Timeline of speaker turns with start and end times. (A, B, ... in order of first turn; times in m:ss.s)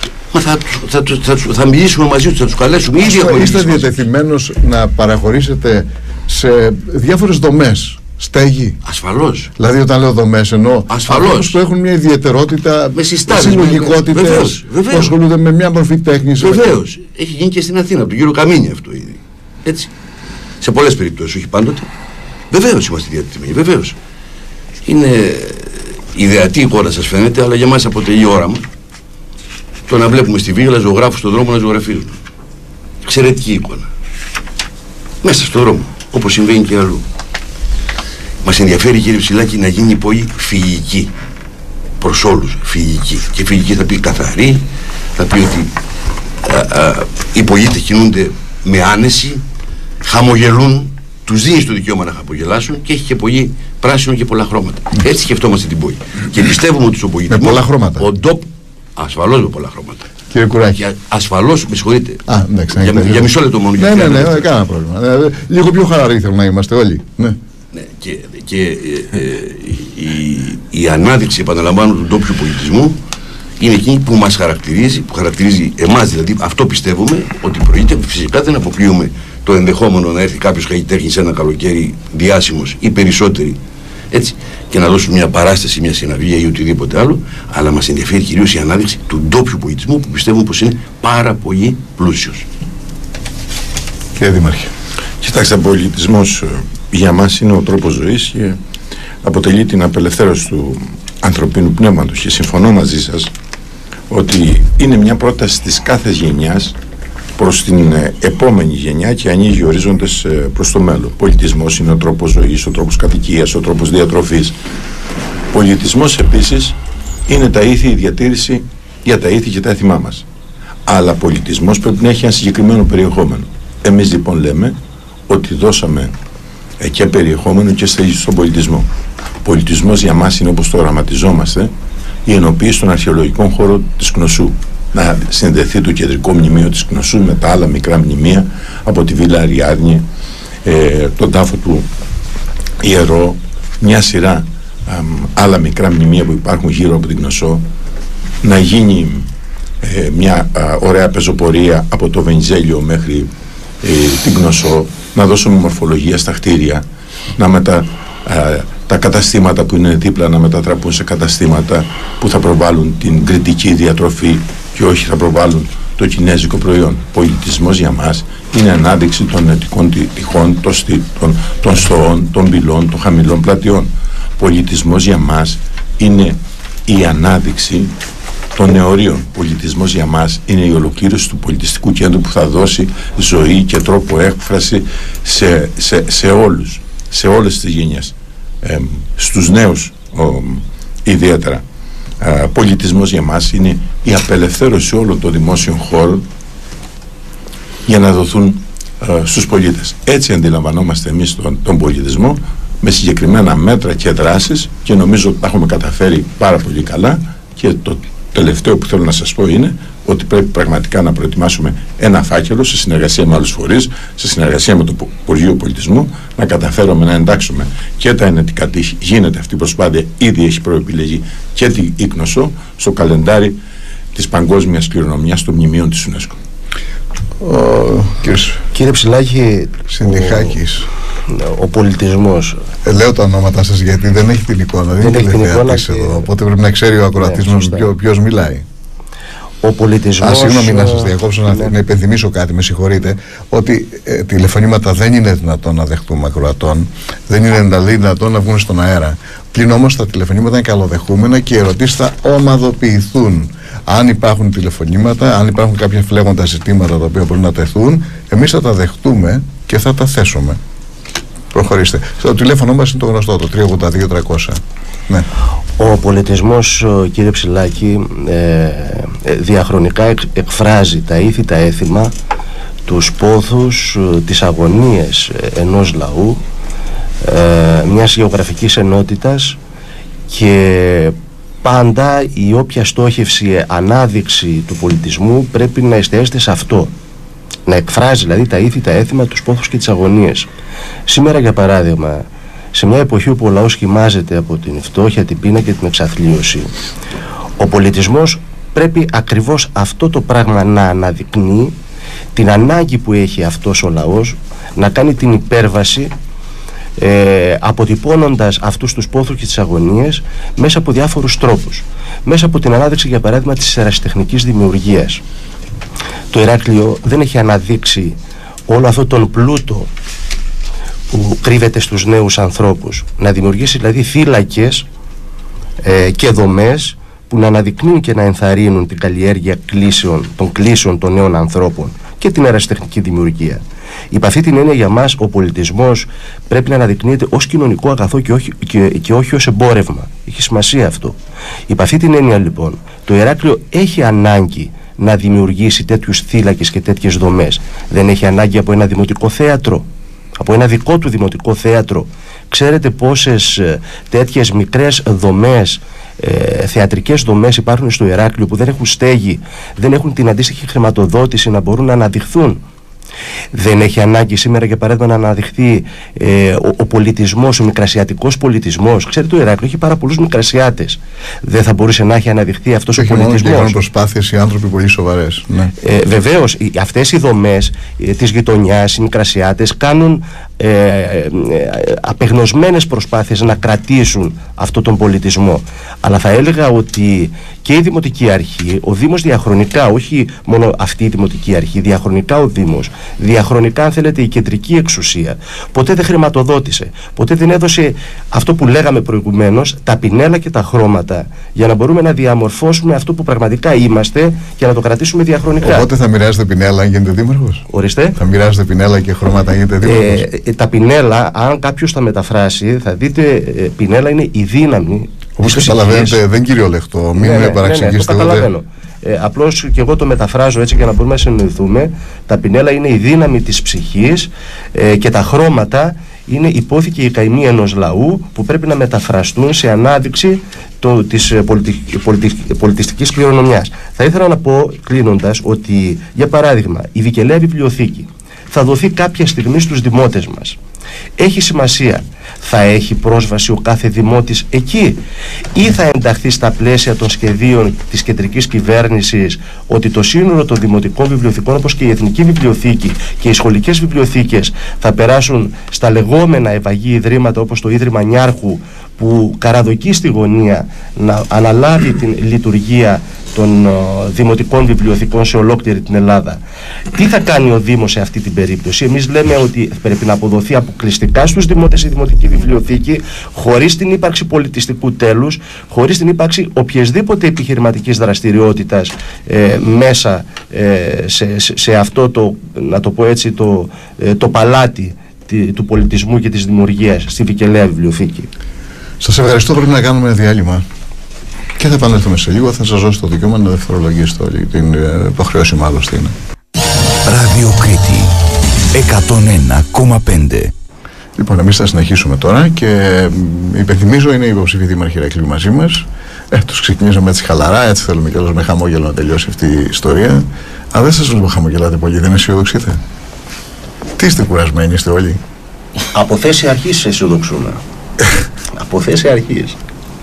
0:00.3-0:04.0 A
0:03.0-0:08.8 B
0:08.8-0:09.5 A
0:09.6-0:16.8 B
0:10.9-0:11.6 A
0:12.9-0:15.2 A
0:16.4-0:19.9 A
0:20.6-0:21.9 A
0:22.5-0:24.0 A
0:24.8-0:28.6 A
0:29.9-0:32.2 A
0:33.0-0:33.9 A
0:35.2-0:37.0 A
0:38.4-0:41.1 A
0:42.0-0:44.6 A
0:45.2-0:45.7 A
0:46.4-0:49.4 A
0:50.0-1:00.1 A
0:57.3-0:58.1 B
1:00.3-1:00.8 B
1:00.8-1:02.2 A
1:02.3-1:07.4 B
1:02.8-1:04.5 A
1:07.7-1:13.0 A
1:13.6-1:23.6 A
1:24.1-1:32.4 A
1:34.2-1:34.7 B
1:35.2-1:38.6 C
1:39.2-1:43.3 C
1:44.1-1:46.8 C
1:47.4-1:54.5 C
1:55.5-1:56.8 C
1:57.3-2:00.2 C
2:00.8-2:04.8 C
2:05.3-2:06.1 C
2:06.8-2:08.9 C
2:09.4-2:11.7 C
2:12.2-2:20.0 C
2:20.6-2:21.9 C
2:22.8-2:27.6 C
2:28.4-2:29.3 C
2:29.8-2:33.3 C
2:33.8-2:36.8 C
2:37.4-2:57.9 C
2:58.5-3:11.6 C
3:12.2-3:16.2 C
3:17.8-3:43.6 C
3:44.1-3:46.4 C
3:47.4-3:48.6 B
3:48.7-3:50.6 D
3:49.9-3:50.9 B
3:51.3-3:52.6 D
3:52.8-3:58.6 B
3:55.0-3:56.3 D
3:57.2-3:57.9 D
3:59.6-4:01.7 D
4:00.2-4:20.6 B
4:21.5-4:25.3 B
4:25.8-4:32.1 D
4:32.8-4:36.4 D
4:37.2-4:39.6 D
4:40.3-4:46.9 D
4:47.7-4:50.5 D
4:51.1-4:56.7 D
4:57.6-5:01.7 D
5:02.3-5:06.1 D
5:07.0-5:15.2 D
5:16.3-5:19.9 D
5:21.1-5:24.8 D
5:25.8-5:33.6 D
5:34.1-5:41.2 D
5:41.7-5:49.9 D
5:50.4-6:02.6 D
6:03.5-6:13.7 D
6:13.0-6:15.7 B
6:15.8-6:45.9 D
6:45.6-6:50.3 B
6:47.7-6:48.2 D
6:49.8-6:56.2 D
6:55.4-6:58.5 B
6:57.2-7:20.6 D
7:21.2-7:25.0 D
7:25.5-7:46.4 D
7:46.9-8:08.3 D
8:09.0-8:10.6 B
8:11.6-8:16.1 B
8:17.0-8:18.1 E
8:18.7-8:20.5 E
8:21.2-8:32.8 B
8:34.0-8:35.2 B
8:35.9-8:37.6 D
8:38.5-8:39.6 D